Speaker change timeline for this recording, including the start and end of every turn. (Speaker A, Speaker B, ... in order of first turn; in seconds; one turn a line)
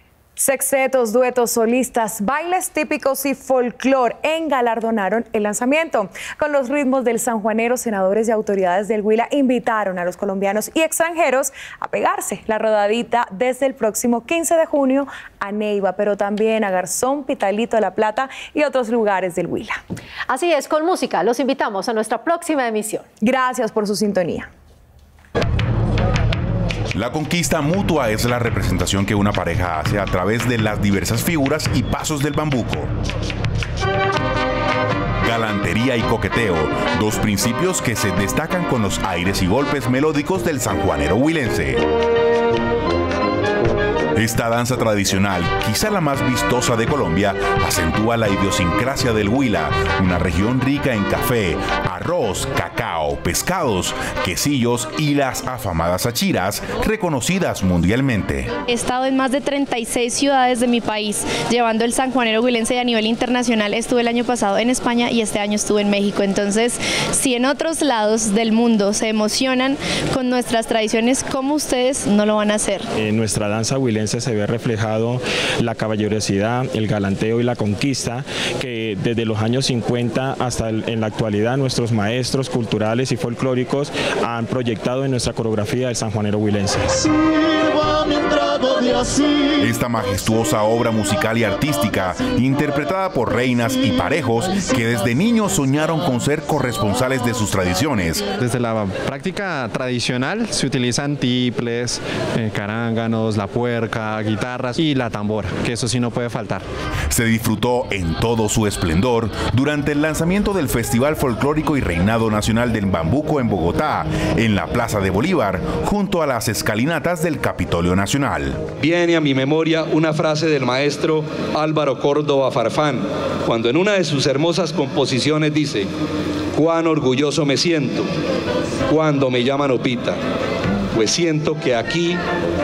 Speaker A: 0.4-19.8
Speaker B: 20.3-23.1
Speaker A: 23.2-24.5
Speaker C: 26.9-32.9
Speaker C: 35.2-41.8
Speaker C: 44.1-58.5
Speaker D: 58.7-72.9
Speaker E: 73.0-87.1
Speaker C: 89.6-98.2
Speaker F: 98.4-106.6
Speaker C: 107.1-118.6
Speaker G: 118.8-125.9
Speaker G: 126.5-128.1
Speaker G: 128.9-130.2
Speaker G: 130.9-132.2